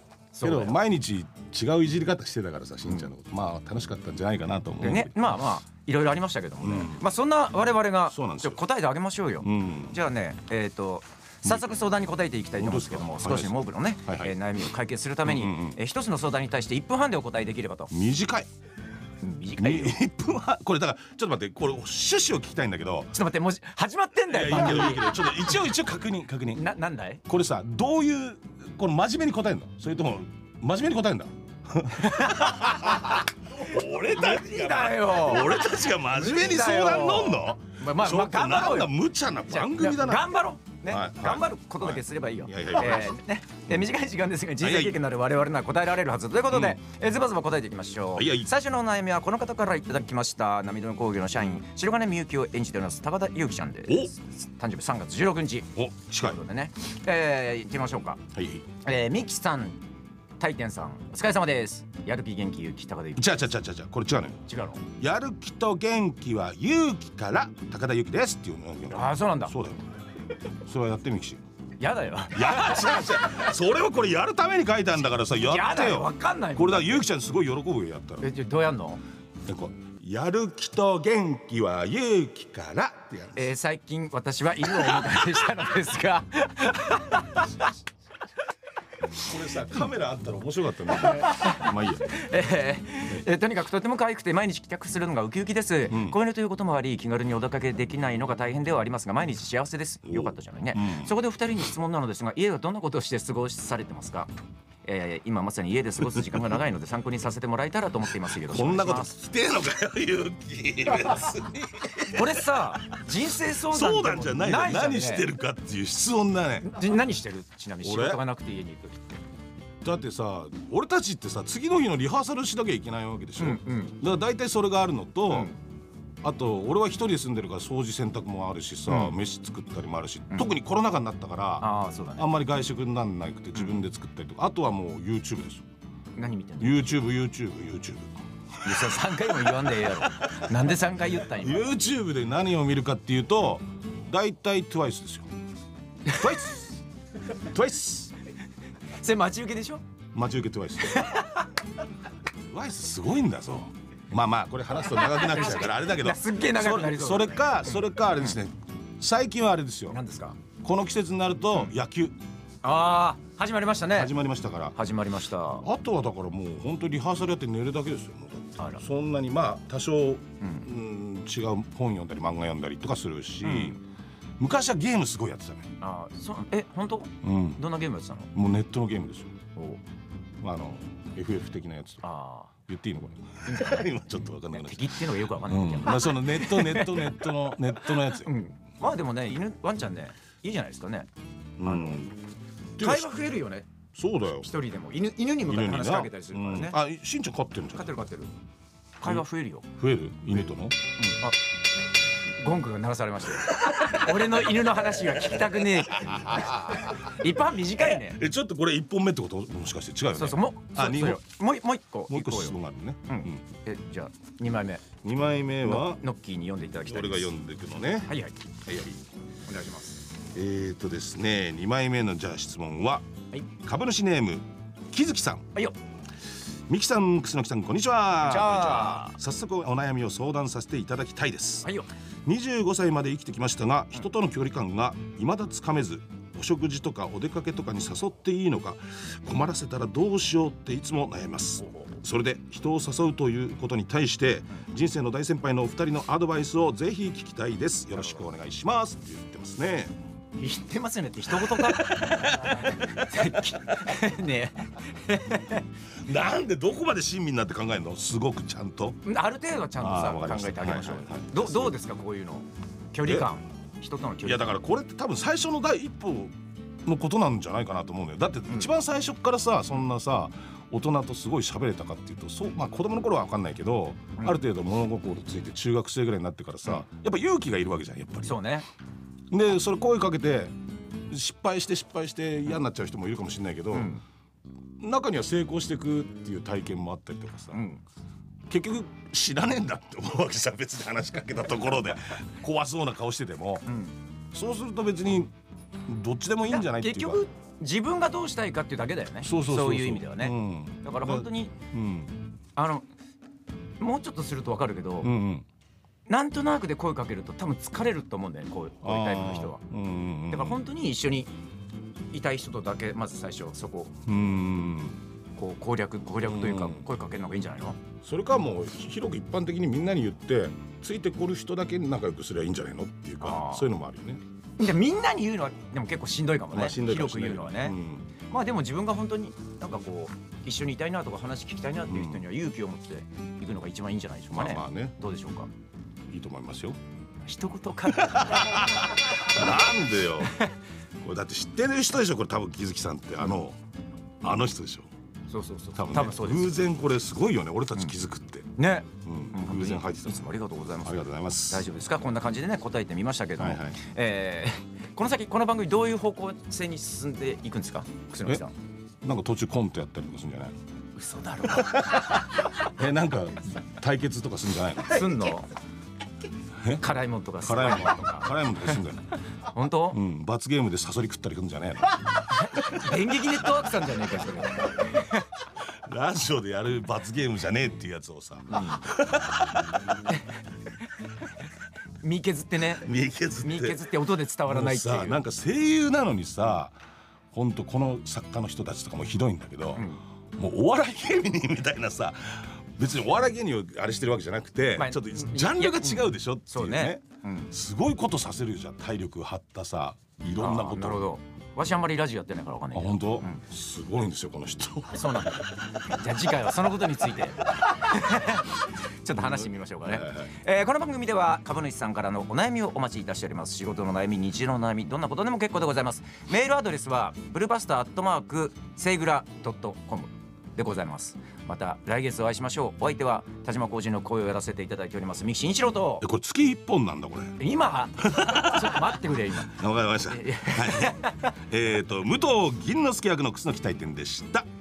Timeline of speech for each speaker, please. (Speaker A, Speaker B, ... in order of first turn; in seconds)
Speaker A: 0.3-0.8, 4.8-17.9, 19.2-20.0, 23.1-25.4, 26.5-27.2, 31.9-58.2, 58.8-59.8, 60.4-63.5, 64.5-64.8, 68.9-69.5, 71.8-73.3, 75.4-77.1, 78.2-79.0, 83.3-87.7, 91.0-104.3, 104.8-109.1, 112.1-115.3, 116.6-119.2, 123.4-124.0, 125.3-125.5, 128.9-129.2, 131.6-132.3, 136.2-137.0, 138.6-141.7, 146.1-146.4, 148.9-149.8, 150.8-151.5, 154.8-158.3, 159.9-160.4, 162.6-164.1, 164.7-165.6, 168.6-168.8, 173.4-173.8, 175.8-178.3, 179.5-179.8, 182.0-182.5, 183.4-183.9, 184.5-191.1, 191.6-192.0, 192.8-193.7, 194.4-196.8, 197.7-198.3, 199.0-199.7, 201.0-201.4, 202.4-208.2, 210.1-214.9, 215.6-217.3, 218.0-218.4, 219.5-220.1, 228.2-229.2, 231.6-231.9, 250.4-255.6, 259.0-264.6, 278.2-278.7, 283.7-284.0, 287.5-287.8, 293.7-293.9, 296.5-301.5, 302.6-302.9, 303.8-305.1, 306.1-309.6, 310.3-311.3, 312.1-313.9, 315.4-317.8, 323.2-323.7, 324.6-327.8, 328.3-335.5, 337.2-339.4, 340.2-340.5, 345.3-346.6, 348.6-358.5, 360.9-362.3, 364.9-365.5, 366.7-368.3, 369.4-370.0, 372.3-375.2, 378.5-378.8, 382.0-382.9, 383.4-385.2, 389.8-390.0, 394.8-397.5, 400.4-403.4, 404.9-426.1, 427.4-431.3
Speaker B: 0.4-5.2, 6.6-7.1, 8.1-8.6, 9.4-10.0, 11.4-11.8, 12.6-14.3, 15.2-15.8, 17.9-18.5, 19.6-23.1, 24.3-26.6, 27.2-40.3, 40.9-43.2, 44.6-45.0, 46.5-46.8, 48.1-48.5, 53.9-54.1, 55.7-56.4, 58.3-58.7, 63.2-64.4, 65.0-69.8, 70.6-71.4, 72.3-78.3, 79.4-83.5, 89.2-92.2, 95.9-96.2, 100.0-101.1, 106.1-106.5, 108.2-113.0, 113.5-116.9, 117.8-118.2, 119.8-125.5, 126.2-135.6, 136.6-140.4, 141.3-145.3, 146.1-146.7, 147.4-148.1, 150.1-151.2, 152.5-160.0, 160.6-162.2, 163.9-164.8, 165.6-173.8, 174.4-175.7, 177.2-177.6, 178.3-179.4, 180.4-182.0, 182.7-188.3, 191.6-192.2, 192.8-193.2, 193.9-194.5, 195.4-197.9, 199.0-200.8, 203.5-204.3, 205.1-211.2, 212.1-213.4, 215.0-216.0, 216.8-219.0, 220.2-225.5, 226.7-231.7, 232.2-249.9, 251.3-254.0, 256.0-259.0, 259.8-261.8, 263.0-263.3, 264.2-278.4, 279.3-280.5, 281.1-283.9, 284.8-287.6, 288.5-293.7, 294.3-295.3, 295.9-297.2, 299.2-302.2, 305.0-305.4, 308.8-310.6, 314.1-315.0, 316.2-316.9, 318.0-324.2, 326.5-328.1, 331.9-332.3, 334.3-334.9, 336.1-336.8, 337.9-340.4, 341.0-343.6, 344.2-344.9, 345.7-350.2, 350.8-351.7, 353.4-353.8, 359.0-360.5, 361.5-365.1, 367.4-369.1, 369.9-372.0, 375.6-379.6, 382.8-383.9, 384.4-386.8, 387.3-401.0, 402.7-405.4, 409.1-410.3, 426.0-427.4, 428.0-434.5